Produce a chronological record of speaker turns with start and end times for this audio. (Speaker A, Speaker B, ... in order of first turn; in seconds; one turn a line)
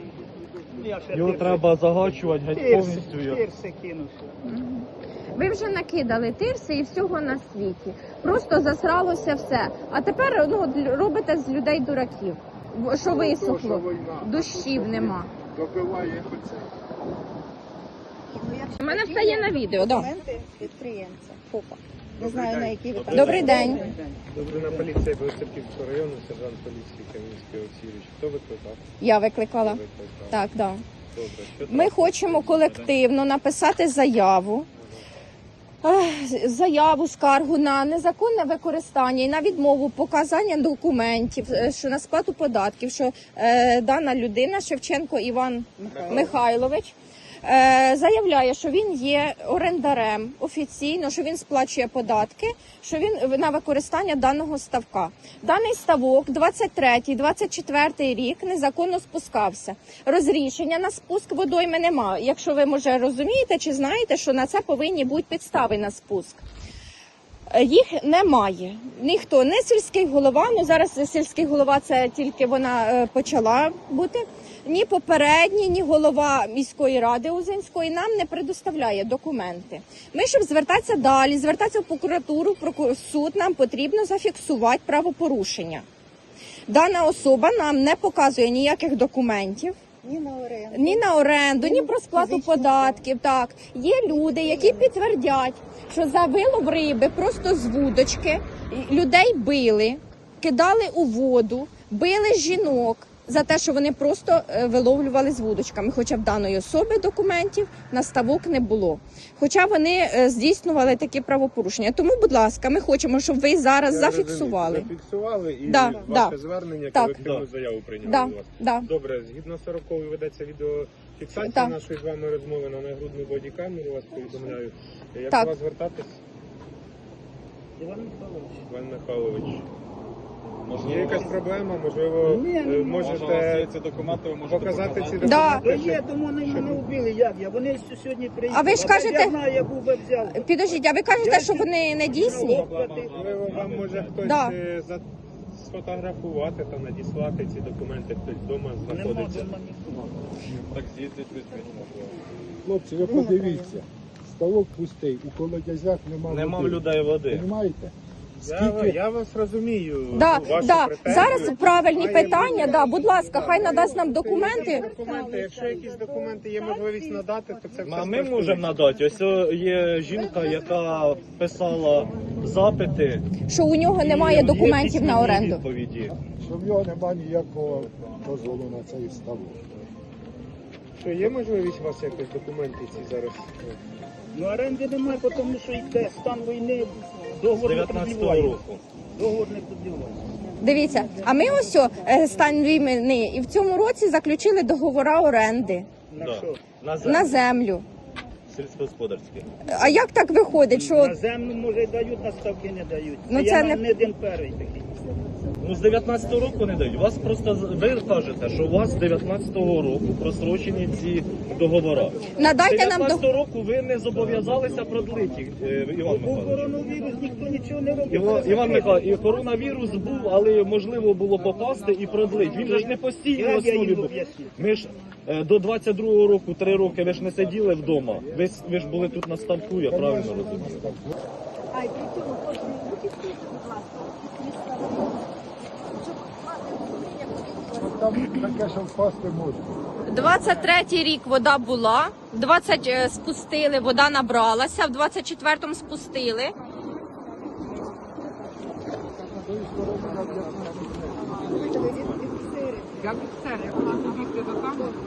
Speaker A: 0.7-1.6
Speaker B: 1.1-3.4
Speaker A: 2.5-4.3
Speaker C: 4.4-15.3
Speaker D: 13.9-16.7
Speaker E: 18.3-23.9
Speaker C: 18.8-20.1
Speaker B: 22.8-23.7
Speaker C: 23.1-23.9
Speaker A: 23.4-24.9
Speaker F: 24.4-28.8
Speaker C: 29.0-30.8
Speaker F: 29.6-30.5
Speaker F: 31.1-31.6
Speaker B: 31.5-32.9
Speaker C: 31.6-34.7
Speaker C: 35.8-66.4
Speaker E: 45.8-46.2
Speaker C: 67.5-85.8
Speaker C: 86.7-89.8
Speaker E: 90.0-93.0
Speaker C: 90.7-114.9
Speaker E: 94.1-95.0
Speaker F: 113.8-126.2
Speaker C: 115.7-116.3
Speaker C: 116.9-117.2
Speaker B: 117.2-117.5
Speaker C: 118.0-118.9
Speaker C: 121.3-121.8
Speaker A: 127.8-128.6
Speaker F: 128.7-129.6
Speaker B: 130.6-131.3
Speaker F: 130.8-133.7
Speaker A: 131.1-131.4
Speaker A: 132.2-133.2
Speaker B: 133.0-135.3
Speaker F: 134.4-136.0
Speaker A: 135.2-143.3
Speaker C: 135.2-135.7
Speaker C: 138.5-139.3
Speaker C: 140.2-142.7
Speaker B: 142.1-144.2
Speaker F: 143.1-149.1
Speaker C: 144.2-144.5
Speaker A: 148.8-150.1
Speaker B: 149.1-149.5
Speaker B: 150.7-152.2
Speaker D: 152.6-158.9
Speaker E: 153.1-153.8
Speaker B: 156.3-157.5
Speaker F: 158.4-168.6
Speaker C: 160.1-164.9
Speaker E: 161.3-168.9
Speaker B: 167.8-173.3
Speaker E: 170.1-171.2
Speaker E: 172.2-172.5
Speaker C: 173.5-175.6
Speaker B: 174.0-176.1
Speaker D: 176.1-179.6
Speaker F: 180.9-183.5
Speaker A: 184.3-188.6
Speaker B: 187.6-188.8
Speaker A: 189.1-190.3
Speaker C: 190.6-195.9
Speaker A: 196.1-196.6
Speaker B: 196.2-197.4
Speaker C: 197.0-197.8
Speaker B: 198.5-199.8
Speaker C: 199.7-201.2
Speaker A: 200.7-205.0
Speaker C: 203.3-203.8
Speaker B: 205.6-216.9
Speaker C: 212.3-213.2
Speaker A: 216.0-219.2
Speaker B: 218.1-230.8
Speaker A: 222.3-224.5
Speaker D: 229.8-231.1
Speaker E: 231.7-235.2
Speaker E: 236.0-238.0
Speaker D: 237.8-239.8
Speaker C: 240.1-246.5
Speaker D: 249.3-251.4
Speaker E: 251.5-254.2